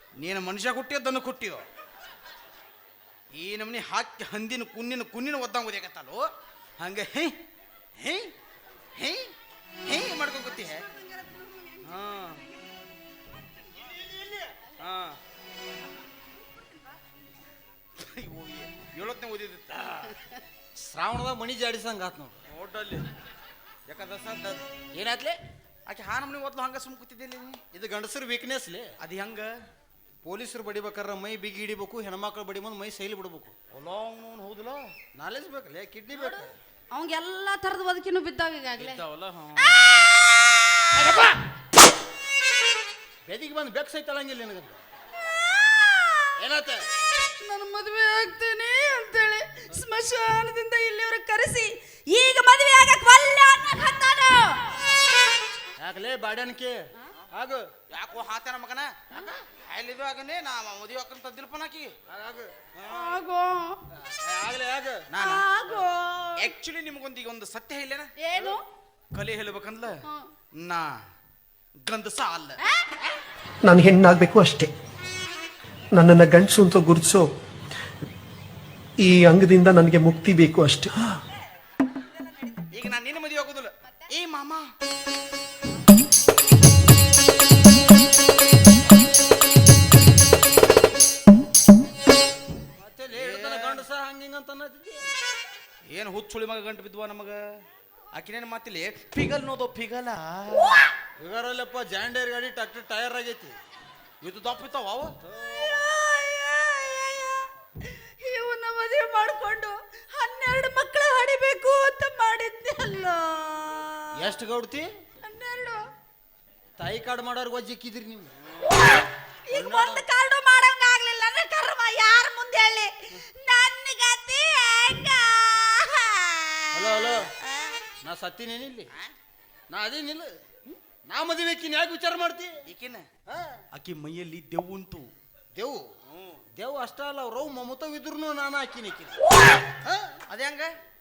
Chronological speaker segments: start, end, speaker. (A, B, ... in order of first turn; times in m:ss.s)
0:00.2-0:01.6 A
0:03.3-0:06.2 A
0:06.8-0:07.4 A
0:08.0-0:08.3 A
0:09.0-0:09.3 A
0:09.8-0:10.8 A
0:11.8-0:12.4 A
0:14.8-0:15.2 A
0:18.0-0:20.2 A
0:20.8-0:22.4 B
0:22.5-0:23.0 A
0:23.9-0:24.6 A
0:24.9-0:25.4 B
0:25.9-0:27.6 A
0:27.7-0:28.9 B
0:29.0-0:29.5 A
0:30.2-0:33.6 B
0:33.7-0:34.9 A
0:35.2-0:36.5 B
0:36.2-0:39.0 C
0:38.8-0:39.8 A
0:39.6-0:40.4 C
0:43.3-0:44.8 B
0:45.2-0:46.4 C
0:46.4-0:46.9 B
0:47.2-0:54.6 C
0:55.8-0:57.7 B
0:57.9-1:01.9 A
0:59.1-0:59.4 B
1:02.1-1:02.6 B
1:02.8-1:03.1 A
1:02.9-1:03.8 C
1:03.9-1:05.1 B
1:05.1-1:05.5 A
1:05.2-1:06.5 C
1:06.4-1:08.6 A
1:08.2-1:08.6 C
1:09.2-1:10.0 A
1:10.5-1:11.0 A
1:11.8-1:12.6 A
1:12.6-1:13.0 C
1:13.6-1:14.7 D
1:15.9-1:17.3 D
1:19.0-1:21.2 D
1:22.7-1:24.6 A
1:32.8-1:35.1 B
1:33.1-1:33.8 A
1:35.9-1:37.6 A
1:38.1-1:40.8 A
1:41.2-1:43.6 B
1:44.2-1:45.1 A
1:45.3-1:54.3 C
1:54.2-1:54.9 B
1:55.2-1:55.8 C
1:56.8-1:58.3 B
1:58.7-2:06.9 C
1:59.5-2:00.1 B
2:06.7-2:07.3 B
2:07.4-2:07.8 C
2:08.0-2:08.9 B
2:09.7-2:12.6 B
2:12.7-2:13.1 A
2:13.2-2:13.6 B
2:13.7-2:15.1 A
2:15.6-2:15.9 B
2:16.1-2:16.4 A
2:16.6-2:19.2 B
2:19.8-2:20.2 B
2:20.3-2:20.7 A